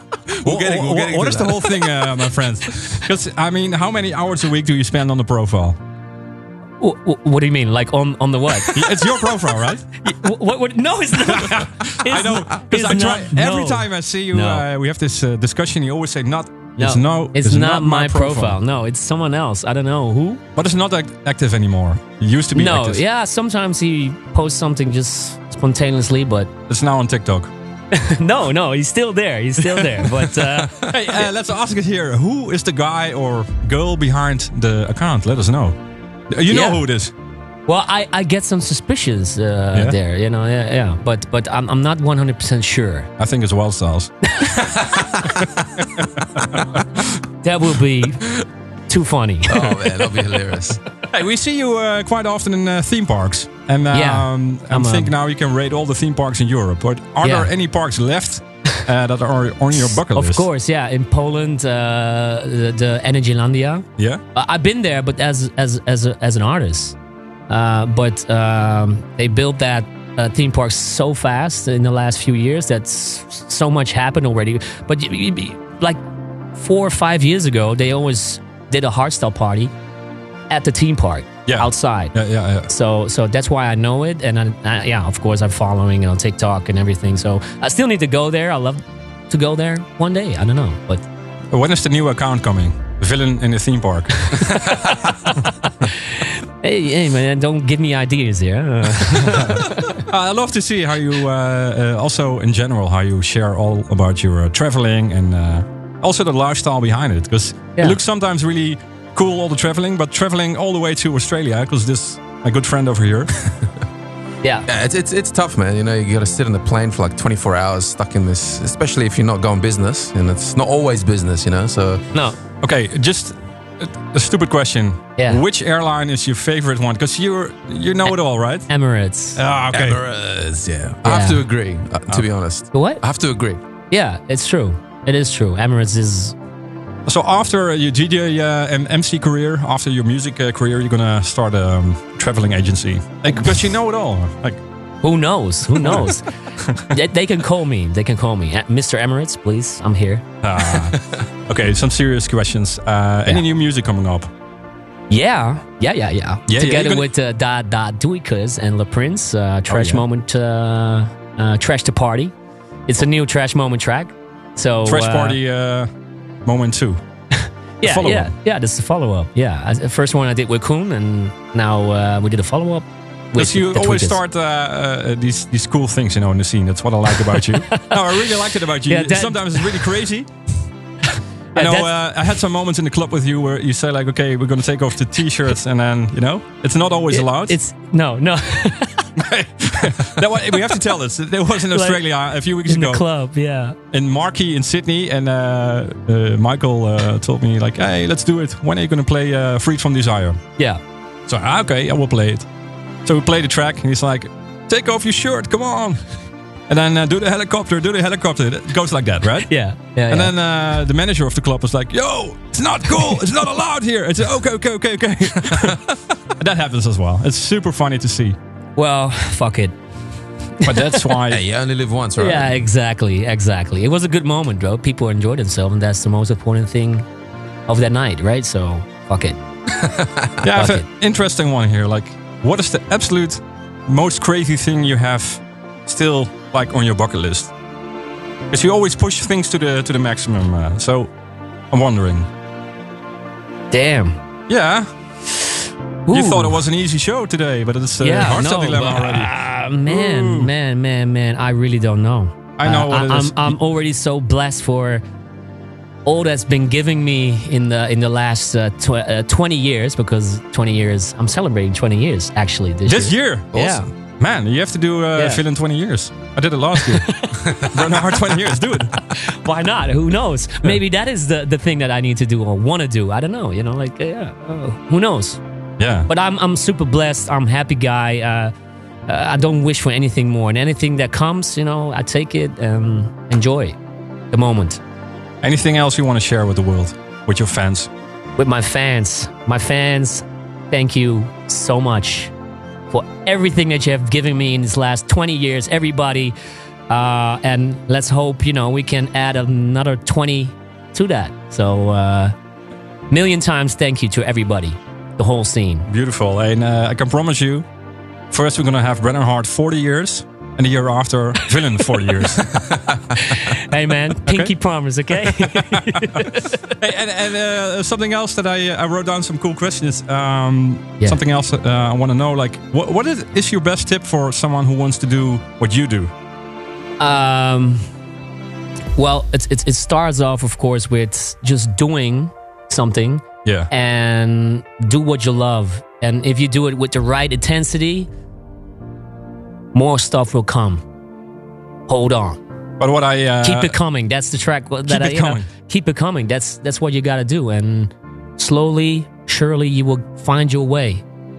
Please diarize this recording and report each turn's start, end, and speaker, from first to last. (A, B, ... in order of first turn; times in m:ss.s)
0:00.4-0:02.1 A
0:00.4-0:05.8 B
0:06.8-0:08.9 C
0:08.7-0:09.9 B
0:10.0-0:14.6 C
0:11.2-0:18.6 B
0:16.8-0:20.4 C
0:20.6-0:23.0 B
0:22.5-0:26.5 C
0:26.7-0:27.5 B
0:27.9-0:31.3 C
0:29.7-0:35.8 B
0:36.3-0:37.1 B
0:36.5-0:36.8 C
0:37.7-0:43.1 C
0:43.2-0:44.1 B
0:47.4-0:48.2 C
0:48.9-0:50.1 C
0:49.5-0:50.8 A
0:51.1-1:00.4 B
0:53.9-0:55.1 C
0:57.2-0:57.5 C
1:00.1-1:07.0 C
1:07.5-1:16.0 C
1:16.5-1:19.7 C
1:20.5-1:22.1 C
1:21.5-1:22.7 B
1:22.7-1:31.0 C
1:31.5-1:35.3 B
1:34.4-1:34.9 C
1:35.9-1:40.0 C
1:40.1-1:53.3 B
1:54.7-2:02.0 A
2:02.6-2:08.7 B
2:05.2-2:05.4 C
2:08.7-2:09.4 C
2:09.3-2:10.0 B
2:09.7-2:13.6 A
2:11.0-2:11.4 C
2:12.7-2:13.0 C
2:13.9-2:16.3 C
2:17.0-2:24.6 B
2:25.0-2:26.2 C
2:25.8-2:26.1 B
2:26.9-2:30.2 C
2:30.4-2:34.3 B
2:35.1-2:42.3 C
2:36.5-2:37.1 B
2:39.7-2:40.0 B
2:42.9-2:45.4 C
2:44.8-2:45.9 B
2:46.4-2:47.0 B
2:47.4-2:54.2 C
2:47.8-2:48.3 B
2:53.4-3:00.3 B
2:57.1-2:58.3 C
2:58.9-2:59.9 C
3:01.5-3:01.9 C
3:01.6-3:07.6 B
3:07.1-3:09.0 C
3:09.2-3:13.0 B
3:11.7-3:12.0 C
3:12.6-3:13.8 C
3:13.9-3:20.4 B
3:21.3-3:22.5 B
3:23.0-3:26.0 B
3:26.7-3:29.5 B
3:29.4-3:30.3 C
3:30.1-3:35.8 B
3:36.4-3:38.4 B
3:38.8-3:39.7 C
3:40.6-3:41.4 B
3:40.6-3:41.1 C
3:41.3-3:42.6 A
3:42.2-3:47.0 C
3:47.7-3:49.4 C
3:49.8-3:50.4 A
3:50.4-3:57.5 B
3:50.5-3:50.9 C
3:58.5-4:01.1 B
4:01.7-4:02.3 B
4:03.7-4:04.2 C
4:04.5-4:04.9 B
4:06.1-4:06.6 C
4:06.1-4:09.3 B
4:08.0-4:15.0 C
4:09.8-4:10.5 B
4:12.6-4:13.6 B
4:16.0-4:23.9 C
4:22.8-4:27.1 B
4:23.5-4:23.8 A
4:25.1-4:25.4 C
4:26.8-4:27.3 C
4:27.7-4:28.9 B
4:29.2-4:35.4 C
4:35.8-4:36.1 B
4:36.1-4:38.5 C
4:39.1-4:43.8 C
4:44.3-4:44.8 C
4:45.4-4:47.9 B
4:48.4-4:52.3 C
4:52.9-4:56.3 C
4:56.9-5:02.3 C
5:03.1-5:05.9 C
5:05.9-5:07.7 B
5:08.3-5:12.4 B
5:13.2-5:16.7 C
5:14.2-5:14.5 B
5:15.3-5:16.2 B
5:16.8-5:26.1 B
5:27.0-5:27.8 C
5:29.0-5:38.1 C
5:39.7-5:40.8 C
5:41.9-5:42.4 C
5:42.8-5:43.8 B
5:43.4-5:51.0 C
5:44.9-5:45.5 B